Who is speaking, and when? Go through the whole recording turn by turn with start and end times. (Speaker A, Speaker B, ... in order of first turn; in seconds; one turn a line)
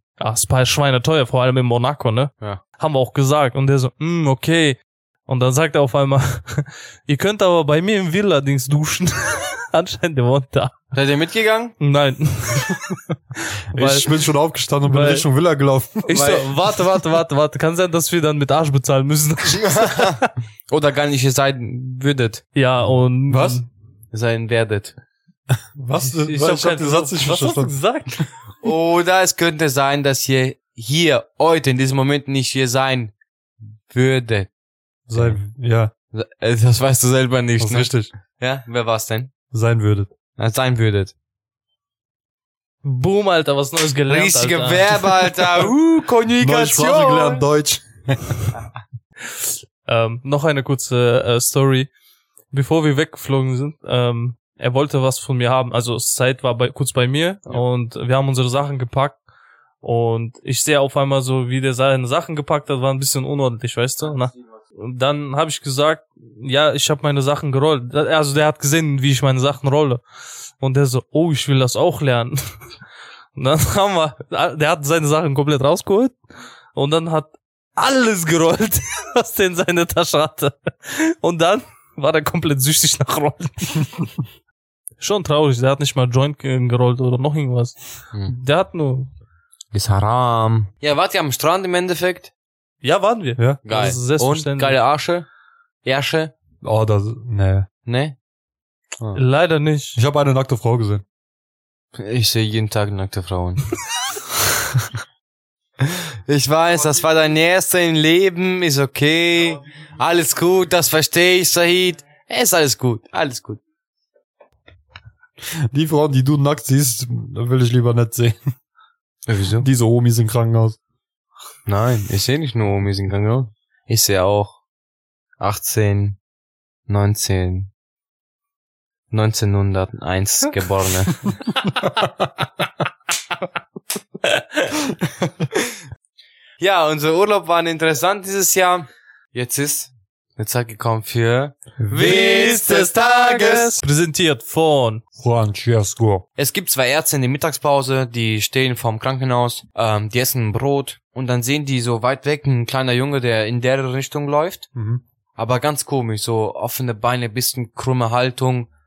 Speaker A: 0.2-10.8
Speaker B: 10.9-11.8
Speaker A: 11.8-14.1
Speaker C: 13.7-16.1
Speaker A: 14.9-15.3
Speaker A: 16.1-20.3
Speaker B: 16.1-16.5
Speaker B: 19.4-22.5
Speaker A: 22.6-23.7
Speaker C: 23.3-23.6
Speaker B: 24.1-24.9
Speaker C: 25.8-27.8
Speaker A: 26.2-28.3
Speaker B: 28.6-33.1
Speaker B: 33.9-34.5
Speaker C: 35.1-35.9
Speaker B: 35.1-35.5
Speaker B: 36.1-39.3
Speaker C: 37.6-38.1
Speaker C: 39.5-40.1
Speaker B: 40.4-41.1
Speaker A: 42.8-45.0
Speaker B: 44.1-47.4
Speaker C: 46.4-48.3
Speaker A: 49.9-51.9
Speaker A: 52.5-59.2
Speaker A: 59.8-70.0
Speaker A: 70.6-72.4
Speaker A: 73.4-76.2
Speaker A: 76.8-84.1
Speaker A: 85.0-89.1
Speaker B: 89.7-92.3
Speaker A: 92.8-94.8
Speaker B: 93.7-95.3
Speaker B: 95.8-96.3
Speaker C: 96.6-97.7
Speaker B: 97.8-98.2
Speaker A: 99.2-100.0
Speaker C: 100.0-101.0
Speaker B: 102.0-103.7
Speaker B: 105.8-113.6
Speaker C: 115.7-118.4
Speaker B: 119.3-119.7
Speaker C: 119.6-120.8
Speaker B: 121.7-124.6
Speaker B: 125.4-126.2
Speaker B: 126.9-127.7
Speaker B: 129.1-131.3
Speaker A: 134.2-134.7
Speaker B: 136.6-143.8
Speaker C: 141.8-142.7
Speaker A: 142.0-145.0
Speaker C: 145.2-146.2
Speaker B: 146.4-154.7
Speaker C: 154.8-155.0
Speaker B: 155.4-158.7